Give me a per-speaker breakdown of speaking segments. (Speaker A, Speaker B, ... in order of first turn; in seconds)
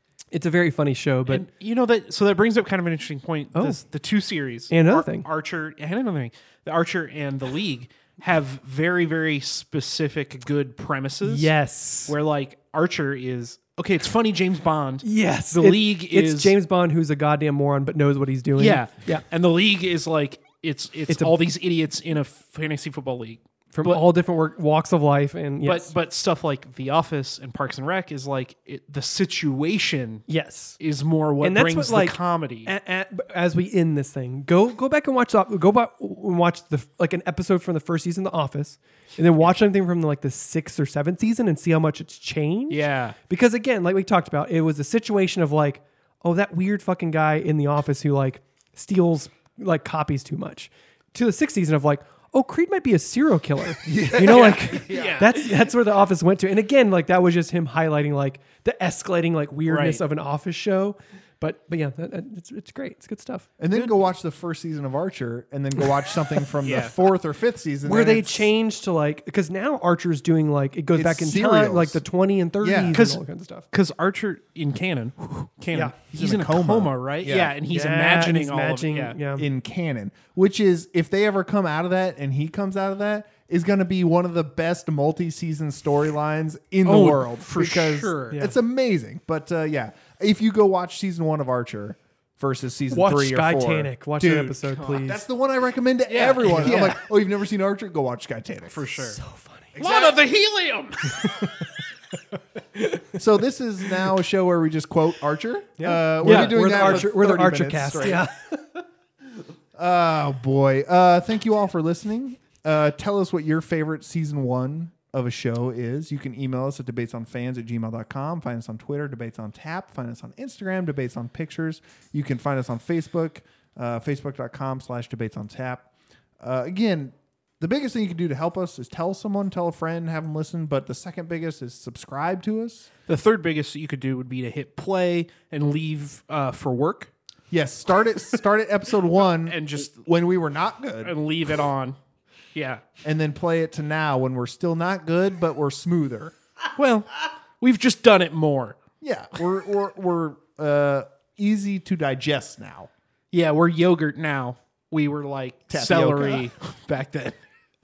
Speaker A: 0.3-1.5, 4.7-5.3, 11.2-12.1, 15.0-19.2, 21.1-21.4, 23.7-25.9, 30.3-30.8, 31.4-63.5, 67.8-73.7, 77.7-79.5, 88.3-88.6, 92.9-95.2, 96.4-97.0, 99.1-99.7, 101.1-101.7, 102.7-103.1, 105.8-108.6
Speaker B: 1.3-11.5, 12.1-16.5, 18.6-24.0, 25.6-30.3, 30.8-32.7, 42.7-43.1, 54.2-55.4, 59.7-60.0, 63.7-64.1, 66.6-67.0, 72.9-79.2, 86.8-88.4, 94.7-95.1, 96.1-97.0, 98.7-99.2, 99.8-101.4, 106.2-107.0, 133.1-137.1, 139.4-140.1, 141.0-141.9, 142.5-142.8, 146.8-147.1, 147.6-148.8, 153.3-157.4
Speaker C: 53.8-55.2, 63.6-68.5, 70.9-72.0, 72.6-73.0, 76.1-77.5, 79.4-99.0, 99.7-100.2, 103.1-108.2, 109.7-125.9, 126.4-132.9, 137.5-141.1, 143.0-146.3, 149.0-152.9, 155.7-156.5